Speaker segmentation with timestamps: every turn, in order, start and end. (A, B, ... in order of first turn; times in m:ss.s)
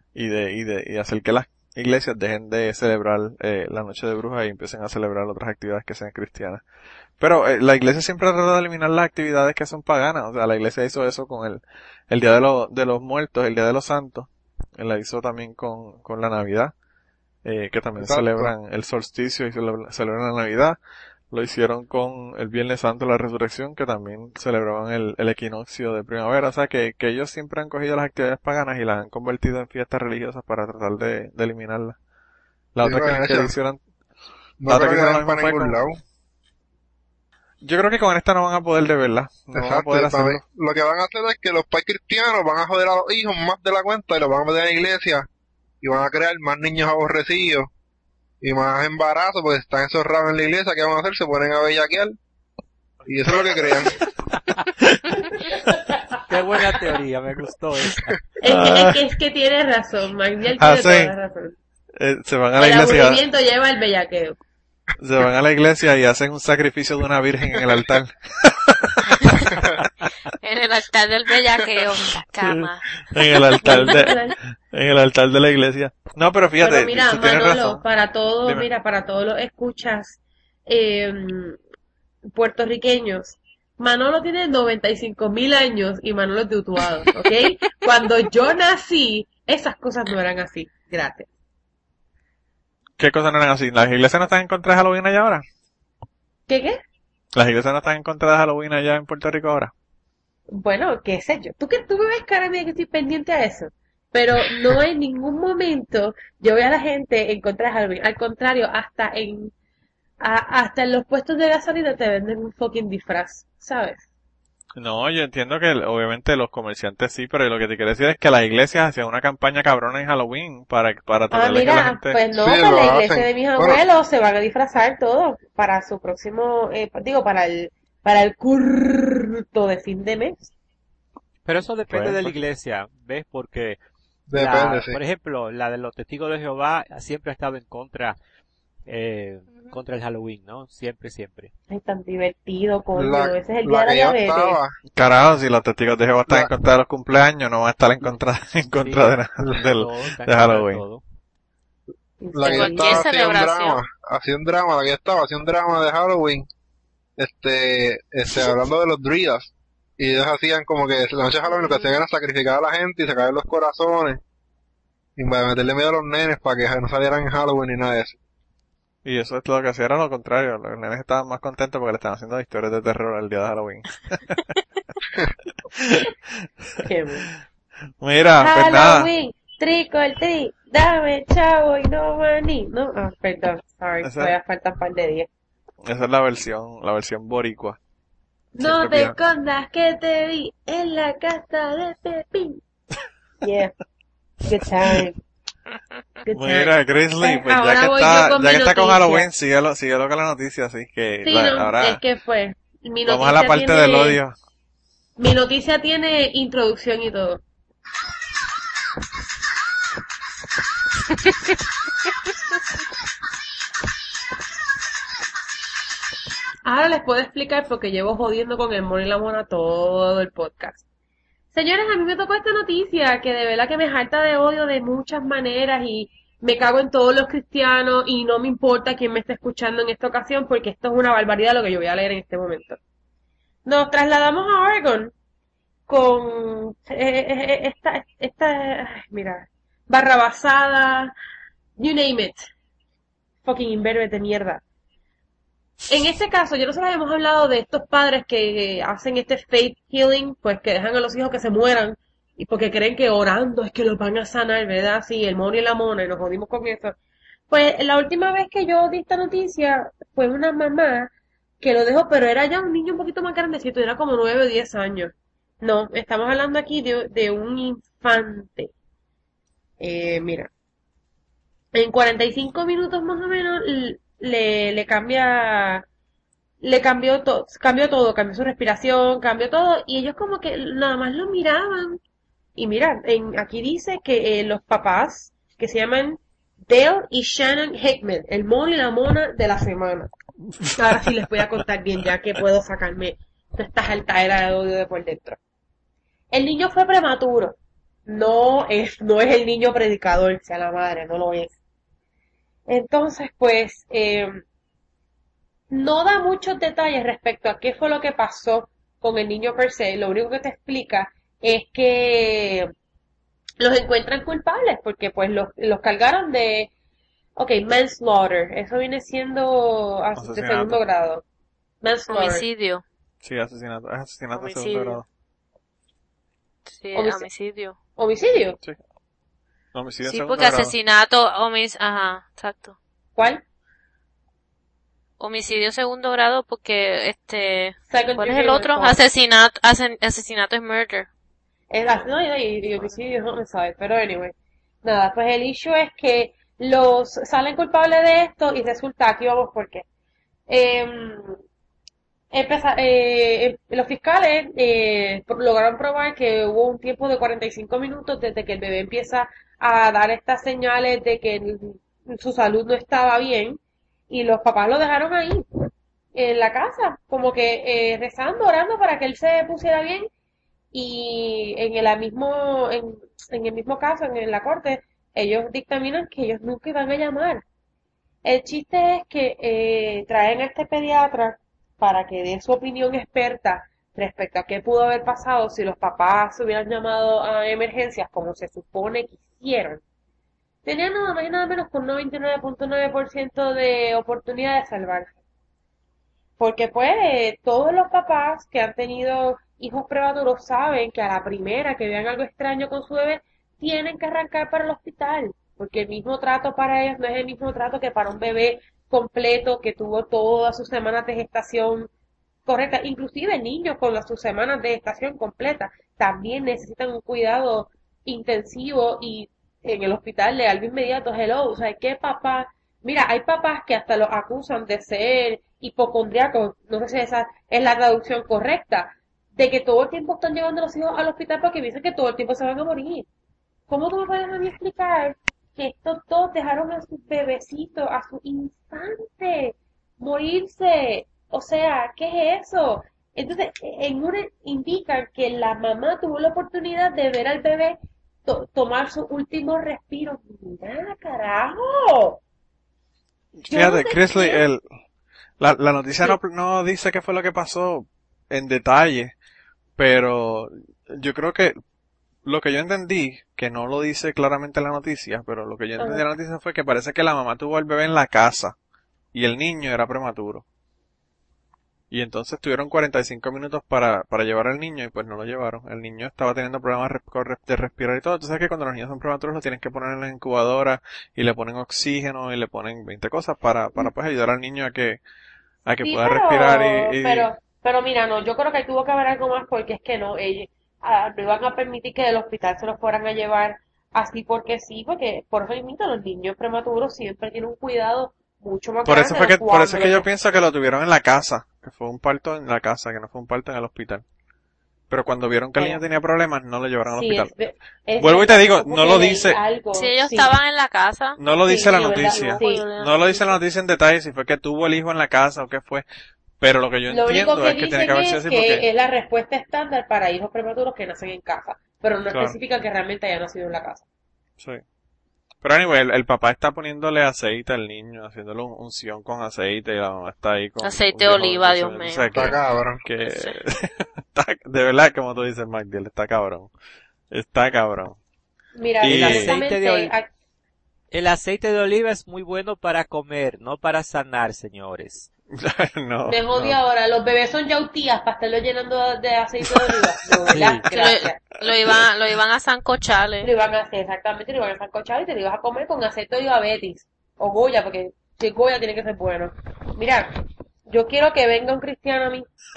0:00.2-0:06.6 A
0:07.2-0:16.7 A
0:17.4-0:20.8 A
0:18.0-0:18.5 B
0:21.3-0:32.0 A
0:32.8-0:33.8 A
0:32.8-0:33.5 B
0:34.6-0:36.0 B
0:34.7-0:35.8 A
0:37.6-0:40.4 A
0:39.5-0:45.3 B
0:45.8-0:47.7 B
0:48.4-0:52.2 B
0:53.1-0:54.0 B
0:54.8-0:55.7 A
0:56.3-0:58.2 C
0:58.4-1:01.6 D
0:58.4-0:59.0 A
1:00.6-1:01.1 A
1:02.0-1:03.2 A
1:02.6-1:04.4 D
1:05.0-1:10.1 A
1:10.4-1:13.4 E
1:12.4-1:14.2 A
1:13.6-1:14.4 D
1:14.7-1:17.8 A
1:16.6-1:21.6 D
1:22.3-1:31.3 D
1:33.0-1:35.4 A
1:36.5-1:36.8 D
1:37.3-1:39.7 A
1:40.5-1:49.5 D
1:50.2-1:54.0 D
1:54.8-2:02.2 A
2:01.3-2:10.5 D
2:02.3-2:03.8 B
2:11.5-2:13.8 C
2:11.9-2:12.3 A
2:14.3-2:15.0 B
2:14.3-2:18.2 C
2:18.9-2:21.5 C
2:21.7-2:24.6 D
2:23.0-2:24.8 B
2:24.9-2:30.8 A
2:28.8-2:31.0 C
2:32.2-2:33.0 D
2:32.3-2:36.5 B
2:32.4-2:33.8 E
2:37.2-2:44.2 B
2:45.2-2:48.2 B
2:49.0-2:54.2 A
2:55.7-2:56.1 A
2:56.8-2:57.3 D
2:58.0-2:59.1 A
2:58.4-3:05.3 D
3:04.0-3:04.3 A
3:05.9-3:07.8 A
3:08.6-3:12.6 D
3:08.6-3:09.2 A
3:13.4-3:13.7 D
3:14.5-3:15.2 D
3:16.3-3:19.3 D
3:16.3-3:22.0 A
3:21.2-3:24.2 D
3:23.1-3:24.3 A
3:25.2-3:27.4 D
3:36.6-3:40.8 D
3:41.5-3:52.8 D
3:53.6-3:55.1 D
3:55.9-4:01.1 D
4:01.8-4:02.5 D
4:03.4-4:04.6 D
4:05.9-4:17.0 D
4:17.5-4:28.7 D
4:29.8-4:30.5 D
4:31.7-4:35.9 D
4:36.6-4:42.0 D
4:42.6-4:50.1 D
4:50.6-4:51.1 A
4:50.8-4:55.4 D
4:56.3-4:57.6 D
4:58.1-5:01.5 D
5:02.7-5:04.4 D
5:05.7-5:12.7 D
5:13.6-5:16.7 D
5:17.4-5:21.2 D
5:20.2-5:20.8 A
5:21.8-5:22.4 D
5:22.1-5:22.8 E
5:23.2-5:25.0 A
5:24.3-5:25.0 E
5:26.7-5:27.8 E
5:27.0-5:27.3 D
5:28.0-5:28.6 D
5:29.7-5:30.8 A
5:30.0-5:32.8 E
5:33.2-5:33.4 D
5:35.2-5:41.1 E
5:37.9-5:39.0 D
5:41.7-5:49.8 D
5:50.5-5:51.4 D
5:52.3-6:03.6 D
6:04.1-6:05.4 D
6:06.2-6:10.1 D
6:10.7-6:17.4 D
6:18.2-6:29.8 D
6:30.6-6:35.1 D
6:36.4-6:51.9 D
6:52.5-7:13.1 D
7:13.7-7:32.2 D
7:33.4-7:34.6 A
7:33.5-7:34.4 D
7:35.4-7:39.1 A
7:39.8-7:41.6 A
7:42.2-7:48.6 A
7:45.8-7:46.0 D
7:49.1-7:50.4 A
7:51.9-8:05.0 A
8:05.7-8:07.3 A
8:05.8-8:20.1 D
8:18.8-8:24.0 A
8:24.9-8:27.3 A
8:25.6-8:25.8 D
8:26.9-8:30.3 D
8:28.0-8:29.4 A
8:29.7-8:33.2 E
8:31.2-8:35.8 A
8:31.4-8:32.7 D
8:36.4-8:38.7 A
8:36.9-8:43.8 D
8:42.1-8:42.4 A
8:45.4-8:56.5 A
8:50.6-8:52.4 E
8:52.2-8:52.8 B
8:53.1-8:53.4 E
8:57.1-8:58.0 A
8:58.6-9:00.1 D
8:58.8-8:59.4 A
8:58.9-8:59.9 C
9:00.9-9:05.1 C
9:05.4-9:06.6 A
9:06.1-9:11.2 D
9:10.3-9:10.6 A
9:10.3-9:10.6 C
9:10.7-9:13.3 E
9:13.2-9:22.3 D